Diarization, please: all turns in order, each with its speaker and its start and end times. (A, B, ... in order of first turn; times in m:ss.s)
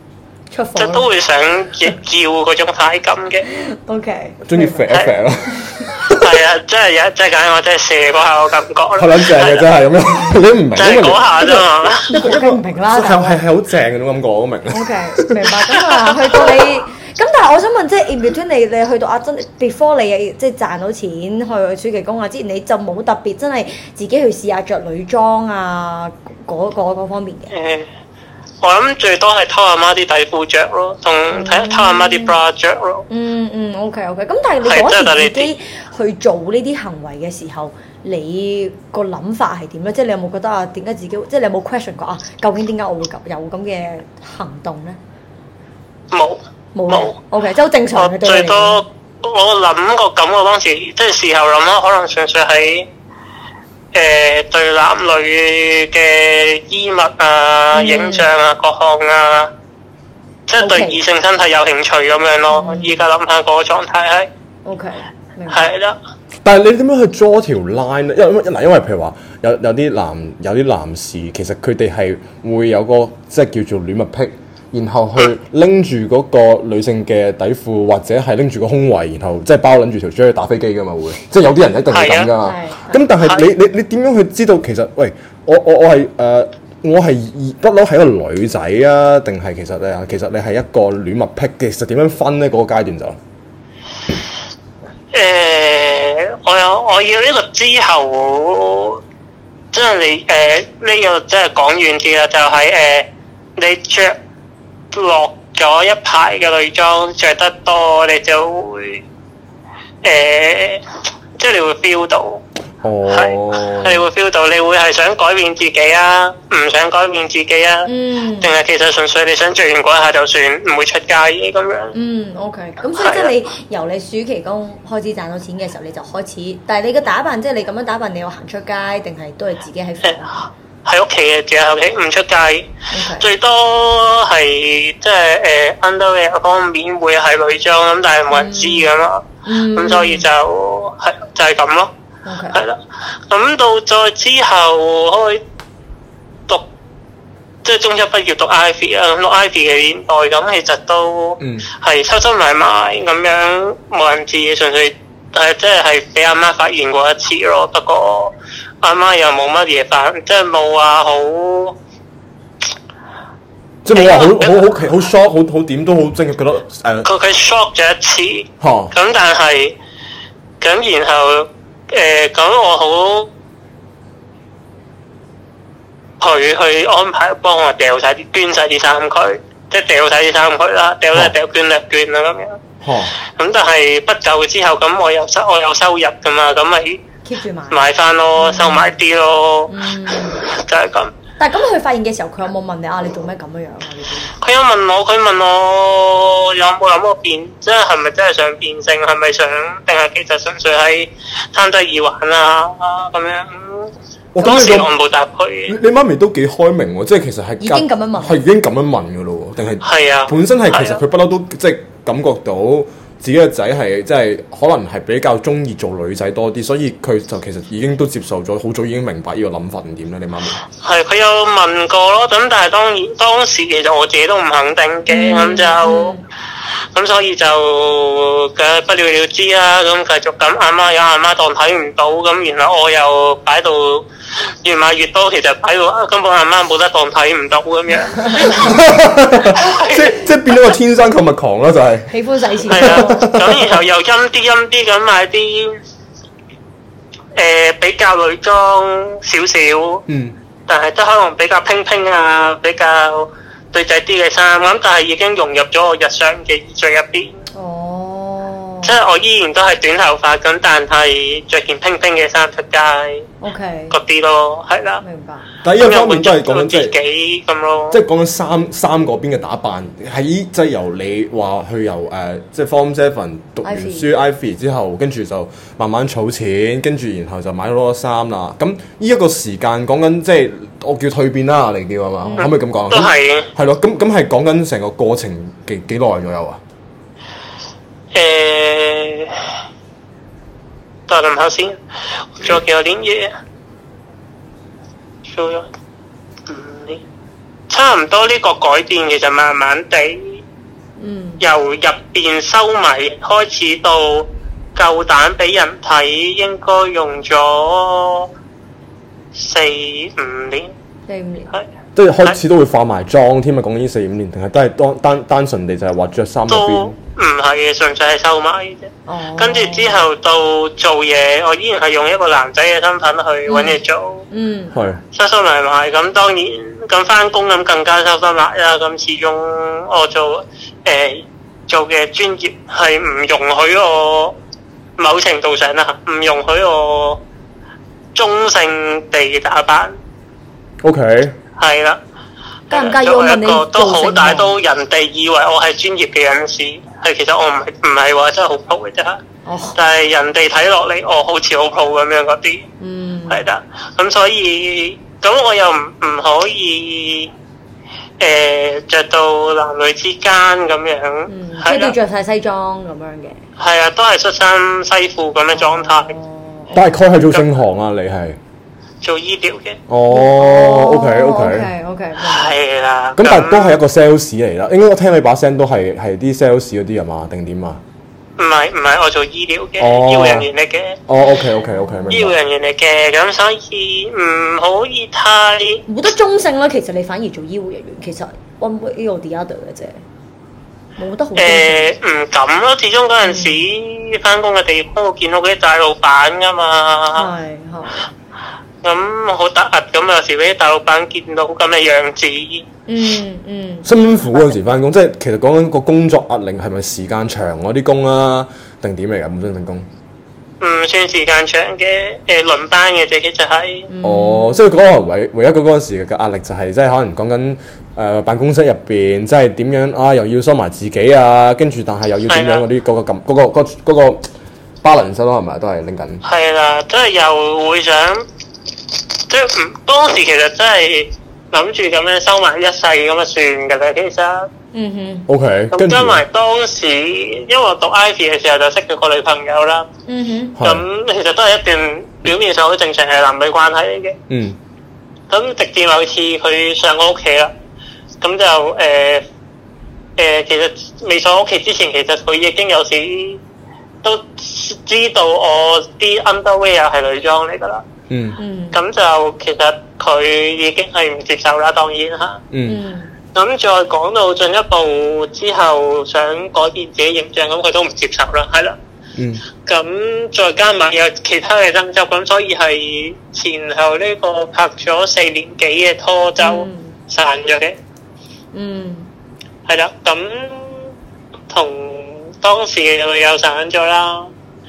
0:00.5-0:01.1 A
0:00.8-0:03.5 B
0:03.5-0:04.9 A
0:04.4-0:06.4 C
0:05.5-0:05.9 A
0:06.0-0:09.7 B
0:09.0-0:15.8 C
0:10.8-0:12.1 B
0:12.1-0:13.4 A
0:14.7-0:27.5 A
0:27.5-0:27.9 B
0:28.6-0:33.0 B
0:31.3-0:32.4 A
0:33.1-0:45.0 A
0:34.6-0:35.5 B
0:46.1-0:47.1 B
0:46.8-0:48.8 A
0:48.0-0:52.9 B
0:53.9-0:59.5 B
0:57.7-0:58.3 A
1:00.5-1:04.3 B
1:00.6-1:01.0 A
1:02.5-1:03.0 A
1:04.6-1:05.7 A
1:05.5-1:06.0 B
1:06.4-1:33.2 C
1:21.9-1:22.3 B
1:22.4-1:23.1 A
1:35.1-1:39.0 B
1:39.7-1:44.2 B
1:44.9-1:49.0 B
1:50.0-1:50.8 B
1:51.4-1:52.4 B
1:52.8-1:54.0 C
1:53.1-1:57.9 B
1:57.9-1:58.5 A
1:58.4-2:01.9 B
2:01.9-2:10.5 A
2:03.0-2:03.3 B
2:10.8-2:21.9 B
2:12.9-2:13.3 A
2:18.3-2:18.9 A
2:19.4-2:20.3 A
2:22.2-2:22.6 A
2:22.5-2:25.4 B
2:27.6-2:41.8 B
2:31.4-2:31.7 C
2:43.8-2:47.1 C
2:43.9-2:44.6 B
2:47.0-2:49.8 B
2:48.6-2:48.9 C
2:50.6-2:53.3 B
2:56.2-3:02.6 B
3:02.8-3:03.1 C
3:03.4-3:07.0 B
3:07.2-3:07.8 A
3:07.7-3:11.1 B
3:08.4-3:08.9 A
3:09.7-3:10.4 A
3:11.4-3:14.3 A
3:14.4-3:25.8 B
3:24.4-3:24.9 C
3:25.7-3:40.6 C
3:27.6-3:28.4 A
3:29.8-3:31.0 B
3:40.8-3:46.2 B
3:45.1-3:46.2 A
3:46.9-3:54.0 B
3:54.6-3:58.7 B
3:58.2-3:58.5 A
3:58.5-4:02.1 C
3:59.5-4:00.1 B
4:02.1-4:03.3 A
4:02.7-4:03.8 C
4:02.7-4:05.8 B
4:07.4-4:10.0 B
4:10.1-4:10.4 C
4:10.7-4:17.4 B
4:17.5-4:18.9 A
4:18.8-4:23.3 B
4:23.4-4:24.0 A
4:23.9-4:25.0 B
4:25.0-4:25.5 A
4:25.6-4:26.9 C
4:25.8-4:28.0 B
4:27.9-4:46.6 C
4:33.6-4:34.1 A
4:42.2-4:42.5 A
4:42.4-4:43.5 B
4:48.1-4:49.4 B
4:51.1-4:51.8 B
4:52.4-4:53.3 B
4:55.3-4:55.7 B
4:56.5-4:57.0 B
4:57.7-5:00.4 B
5:01.0-5:01.4 A
5:01.4-5:08.3 B
5:09.3-5:10.7 B
5:11.1-5:11.5 A
5:11.9-5:17.0 C
5:16.5-5:24.2 B
5:19.1-5:20.0 A
5:23.5-5:23.8 A
5:24.3-5:24.8 A
5:24.7-5:25.0 C
5:25.1-5:34.4 B
5:35.0-5:37.2 B
5:38.1-5:39.9 B
5:40.8-5:41.4 C
5:41.6-5:42.0 B
5:42.7-5:49.2 B
5:42.7-5:44.6 A
5:49.5-5:49.8 A
5:49.8-5:52.7 B
5:52.8-5:53.4 A
5:53.3-5:57.3 B
5:58.2-6:01.9 B
6:01.3-6:03.4 A
6:03.6-6:06.1 B
6:05.5-6:06.9 A
6:06.7-6:08.4 C
6:09.0-6:09.8 B
6:09.9-6:11.7 C
6:10.1-6:12.5 A
6:12.2-6:13.8 B
6:13.2-6:17.8 C
6:18.4-6:21.0 B
6:19.8-6:20.5 C
6:21.1-6:22.3 C
6:21.6-6:22.2 A
6:22.1-6:25.8 B
6:25.9-6:30.0 A
6:31.0-6:31.9 A
6:31.4-6:37.3 B
6:33.2-6:33.6 A
6:37.2-6:38.1 A
6:38.8-6:42.7 B
6:42.9-6:43.9 A
6:43.8-6:49.9 C
6:50.6-6:53.9 B
6:53.9-6:54.6 A
6:54.0-7:04.3 C
7:02.3-7:02.6 B
7:04.8-7:06.2 C
7:06.2-7:08.2 B
7:09.3-7:14.5 B
7:14.7-7:15.3 A
7:15.3-7:16.2 C
7:15.7-7:19.9 B
7:20.1-7:20.6 A
7:20.6-7:20.8 C
7:20.6-7:24.2 B
7:24.3-7:24.6 C
7:25.3-7:27.5 B
7:28.2-7:29.2 B
7:30.2-7:33.4 B
7:34.0-7:37.8 B
7:38.1-7:38.4 C
7:38.4-7:38.8 A
7:38.7-7:42.4 B
7:42.5-7:42.8 C
7:42.6-7:43.1 A
7:43.3-7:48.8 B
7:49.2-7:49.5 C
7:49.7-7:57.8 B
7:56.4-7:56.9 A
7:58.5-7:59.1 A
7:59.7-8:00.9 B
8:01.5-8:04.3 B